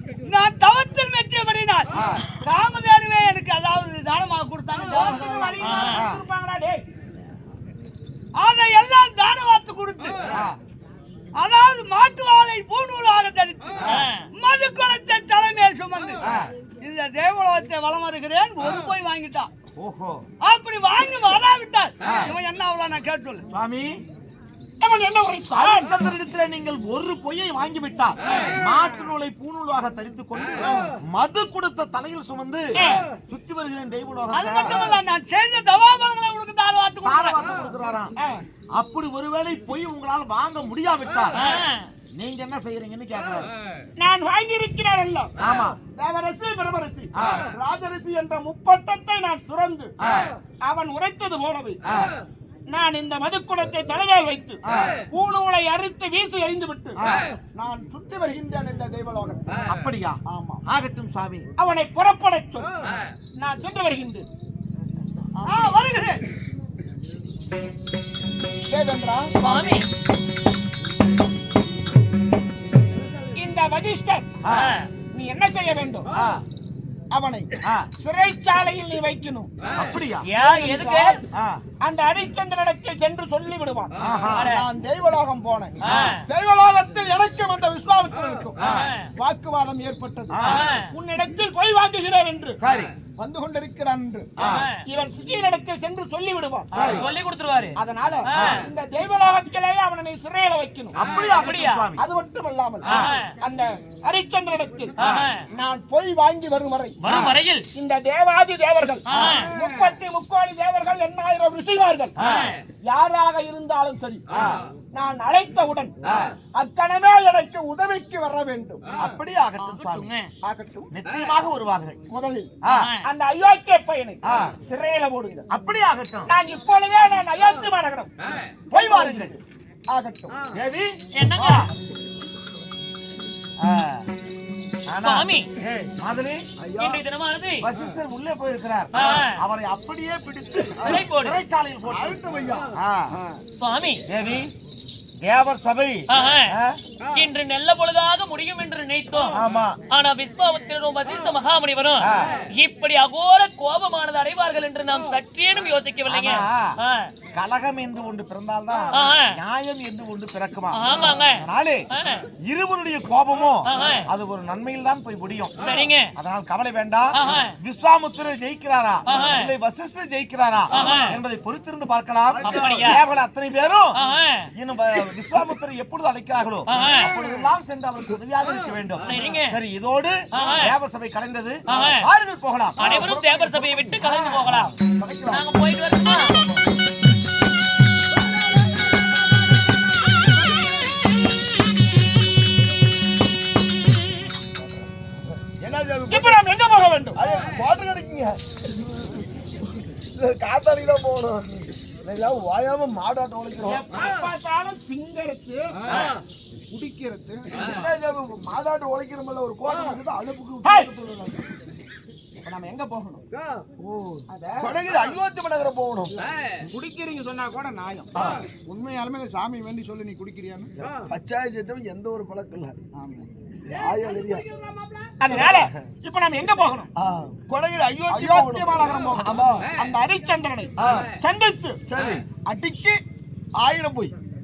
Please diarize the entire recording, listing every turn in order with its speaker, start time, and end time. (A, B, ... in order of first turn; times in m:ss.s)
0:00.2-0:05.9 A
0:01.9-0:02.2 B
0:04.8-0:06.8 C
0:05.6-0:06.0 D
0:05.9-0:06.2 B
0:08.4-0:10.2 A
0:10.3-0:10.6 B
0:11.4-0:13.8 A
0:13.9-0:14.3 D
0:14.4-0:16.2 A
0:16.2-0:16.5 B
0:16.8-0:19.5 A
0:19.8-0:20.2 B
0:20.4-0:23.4 A
0:22.0-0:22.3 B
0:23.5-0:24.0 B
0:24.8-0:25.9 C
0:25.5-0:32.8 B
0:33.3-0:35.0 B
0:34.3-0:37.7 A
0:37.0-0:38.1 B
0:38.8-0:41.5 B
0:41.4-0:41.9 D
0:42.2-0:43.5 B
0:44.0-0:45.3 C
0:45.4-0:45.8 B
0:45.9-0:49.9 C
0:47.2-0:47.5 B
0:50.0-0:50.3 B
0:50.6-0:51.8 C
0:52.7-0:54.6 C
0:54.7-0:55.0 B
0:55.1-0:57.0 C
0:57.0-0:57.3 B
0:57.6-0:59.4 C
0:59.7-1:01.5 B
1:00.3-1:00.6 C
1:01.6-1:02.7 C
1:03.4-1:04.3 C
1:05.4-1:05.7 C
1:05.5-1:06.2 A
1:08.7-1:09.4 C
1:09.4-1:09.9 B
1:09.4-1:09.9 D
1:13.4-1:14.3 C
1:14.4-1:14.7 B
1:14.5-1:14.9 D
1:15.1-1:16.1 C
1:16.1-1:16.4 B
1:17.1-1:19.5 C
1:17.6-1:17.9 B
1:19.7-1:20.2 B
1:20.3-1:21.2 D
1:20.4-1:21.2 C
1:21.3-1:21.6 B
1:21.8-1:28.6 C
1:24.0-1:24.5 B
1:24.3-1:24.6 D
1:25.8-1:26.2 D
1:25.9-1:26.2 B
1:28.6-1:28.9 B
1:28.6-1:29.1 D
1:29.2-1:32.6 C
1:30.3-1:30.6 B
1:30.4-1:30.9 D
1:32.6-1:32.9 B
1:33.2-1:34.3 C
1:34.4-1:34.6 B
1:34.4-1:34.8 D
1:34.9-1:36.7 C
1:36.7-1:37.1 B
1:36.7-1:37.8 D
1:37.8-1:41.0 C
1:38.3-1:38.6 D
1:38.3-1:38.6 B
1:41.0-1:42.0 B
1:41.2-1:41.8 D
1:42.0-1:44.9 C
1:42.8-1:43.1 B
1:42.9-1:43.3 D
1:45.0-1:45.3 B
1:45.0-1:45.4 D
1:45.5-1:47.0 C
1:47.0-1:47.4 B
1:47.1-1:47.6 D
1:47.8-1:52.2 C
1:49.1-1:49.5 D
1:49.1-1:49.4 B
1:52.2-1:52.6 B
1:52.2-1:52.6 D
1:52.9-1:54.2 C
1:54.3-1:54.6 B
1:55.0-1:55.9 C
1:56.0-1:56.3 B
1:56.6-1:58.8 C
1:59.0-2:00.1 B
1:59.6-2:00.3 D
2:00.4-2:00.9 C
2:00.9-2:02.0 B
2:02.1-2:02.5 C
2:02.6-2:02.9 B
2:02.7-2:03.1 D
2:03.0-2:05.5 C
2:04.3-2:04.5 B
2:05.5-2:06.3 B
2:06.3-2:08.1 C
2:08.7-2:09.4 C
2:08.7-2:09.4 B
2:09.9-2:10.3 C
2:10.5-2:11.7 B
2:11.1-2:11.7 D
2:13.6-2:14.1 B
2:14.9-2:16.4 B
2:15.0-2:15.5 D
2:16.6-2:17.0 E
2:16.8-2:17.7 D
2:17.6-2:22.2 B
2:18.9-2:19.4 D
2:20.8-2:21.4 D
2:21.9-2:23.4 E
2:22.7-2:23.1 B
2:23.6-2:24.0 D
2:24.1-2:24.5 B
2:25.2-2:26.8 B
2:26.1-2:26.6 D
2:27.1-2:29.4 D
2:29.3-2:29.8 B
2:29.9-2:37.1 D
2:32.0-2:32.3 B
2:36.1-2:36.8 B
2:37.3-2:41.9 B
2:38.9-2:39.4 D
2:40.7-2:42.2 D
2:42.4-2:45.6 B
2:43.7-2:44.1 D
2:45.6-2:46.1 D
2:46.2-2:54.0 B
2:47.1-2:47.6 D
2:49.1-2:49.5 D
2:50.7-2:51.2 D
2:52.3-2:53.0 E
2:52.4-2:53.0 D
2:54.0-2:54.5 D
2:54.6-3:05.4 B
2:56.7-2:57.1 D
2:59.1-2:59.6 D
3:00.3-3:00.8 D
3:01.7-3:02.1 D
3:02.8-3:04.7 D
3:05.3-3:06.4 D
3:08.2-3:10.9 A
3:15.5-3:16.4 E
3:16.1-3:17.2 C
3:17.2-3:18.4 E
3:20.2-3:23.9 E
3:23.6-3:25.8 C
3:26.7-3:27.5 C
3:27.6-3:31.5 E
3:30.6-3:30.9 C
3:32.4-3:33.2 C
3:33.8-3:36.2 E
3:34.3-3:34.8 C
3:36.1-3:38.1 C
3:38.2-3:38.5 E
3:38.7-3:40.7 C
3:40.8-3:42.8 E
3:43.0-3:43.3 C
3:43.7-3:45.2 A
3:43.7-3:44.4 E
3:45.2-3:46.9 C
3:45.3-3:45.7 E
3:47.0-3:49.7 E
3:48.1-3:51.8 C
3:50.8-3:51.1 E
3:51.9-3:52.3 E
3:52.4-3:53.0 C
3:53.6-3:54.1 E